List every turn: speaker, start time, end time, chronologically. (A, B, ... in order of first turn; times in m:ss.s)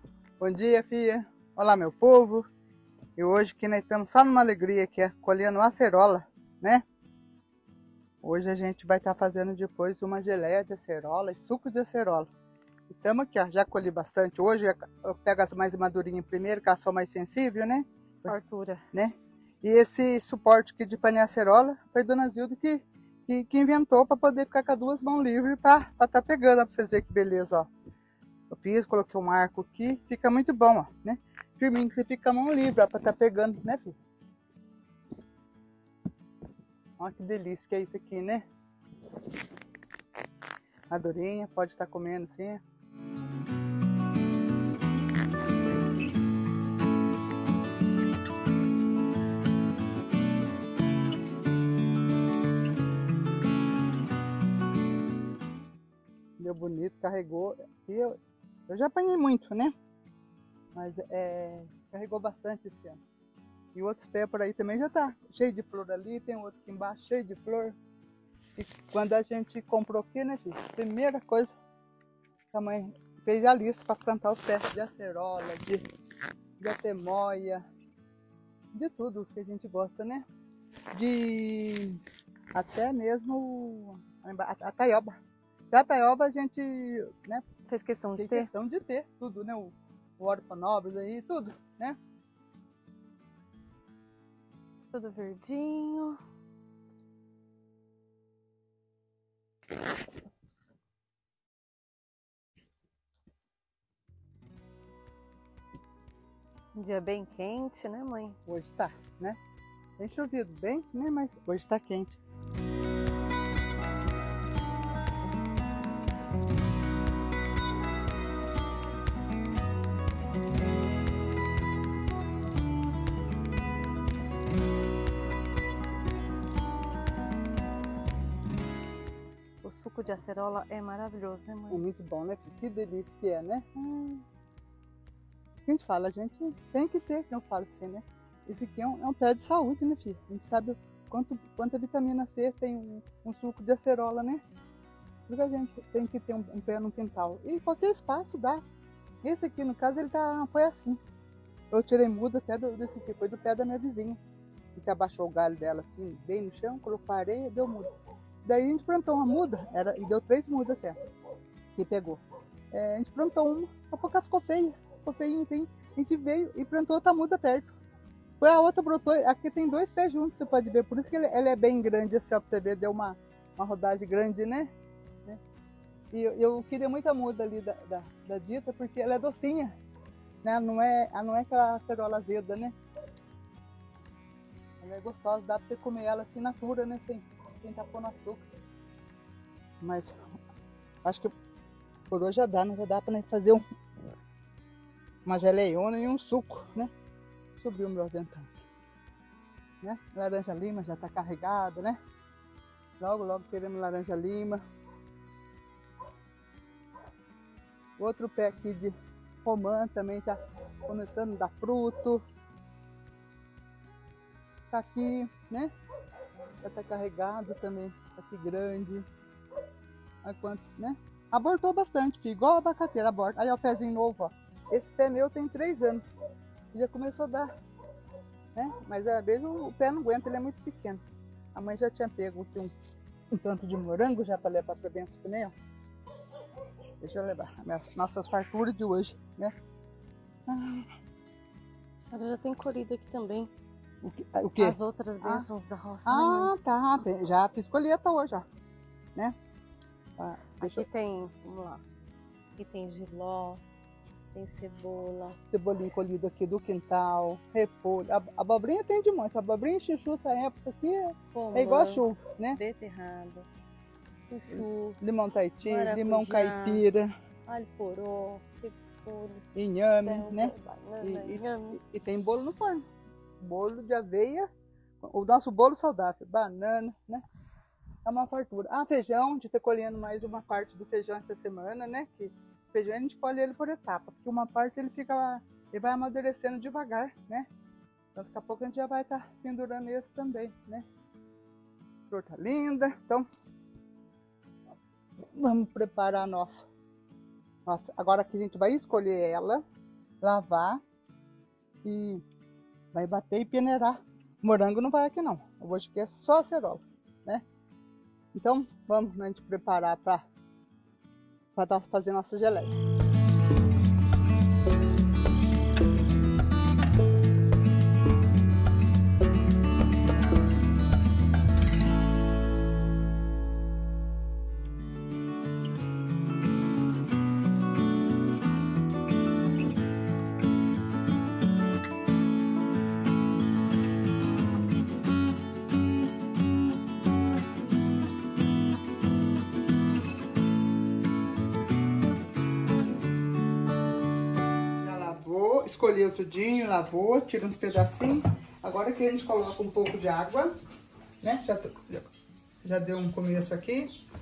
0:00.4-0:02.5 A
0:03.2-0:06.8 A
0:08.2-0:12.3 A
0:12.9-0:18.3 A
0:18.2-0:18.8 B
0:18.9-0:27.7 A
0:28.5-0:34.0 A
0:37.0-0:38.4 A
0:40.9-0:42.6 A
0:56.4-0:58.2 A
0:58.7-0:59.7 A
1:00.7-1:03.0 A
1:03.7-1:07.8 A
1:08.6-1:11.5 A
1:12.5-1:15.8 A
1:16.6-1:17.6 A
1:18.7-1:20.2 A
1:20.9-1:22.0 A
1:22.5-1:25.2 A
1:25.7-1:27.5 A
1:27.7-1:28.5 B
1:28.2-1:32.0 A
1:34.9-1:36.2 B
1:46.8-1:48.4 B
1:48.4-1:49.4 A
1:50.0-1:52.2 A
2:09.6-2:11.8 B
2:11.7-2:14.2 A
2:15.6-2:24.4 A
2:25.3-2:28.6 A
2:29.2-2:31.0 A
2:31.7-2:34.2 A
2:34.7-2:37.9 A
2:38.4-2:41.0 A
2:41.8-2:47.7 A
2:48.4-2:54.7 A
2:56.1-2:59.7 A
3:00.4-3:02.7 A
3:04.8-3:08.5 A
3:09.8-3:10.1 A
3:11.0-3:11.3 A
3:12.1-3:13.6 A
3:15.2-3:16.9 A
3:17.6-3:18.5 A
3:19.8-3:22.0 A
3:23.0-3:24.6 A
3:28.0-3:32.2 A
3:34.7-3:35.7 A
3:36.6-3:39.1 A
3:40.2-3:46.0 A
3:46.7-3:47.5 A
3:48.5-3:51.0 A
3:51.5-3:52.7 A
3:53.3-3:55.5 A
3:57.0-3:59.5 A
4:00.5-4:00.9 A
4:02.0-4:03.5 B
4:04.0-4:05.5 A
4:04.6-4:06.5 B
4:06.0-4:08.4 A
4:10.2-4:10.8 A
4:10.6-4:11.8 B
4:12.6-4:13.6 B
4:14.3-4:15.4 B
4:15.5-4:22.6 A
4:21.3-4:23.5 B
4:24.3-4:25.0 B
4:24.5-4:27.1 A
4:25.6-4:26.8 B
4:27.5-4:29.4 B
4:29.5-4:32.8 A
4:30.0-4:31.8 B
4:33.4-4:34.5 A
4:35.0-4:37.2 A
4:38.0-4:47.5 A
4:48.1-4:50.8 A
4:52.1-4:53.2 A
4:55.2-4:56.7 A
4:57.6-4:59.6 A
5:00.2-5:00.8 A
5:01.8-5:02.2 A
5:02.9-5:07.4 A
5:08.3-5:10.2 A
5:11.5-5:12.8 A
5:44.8-5:50.5 A
5:51.2-5:52.0 A
5:52.6-5:53.9 A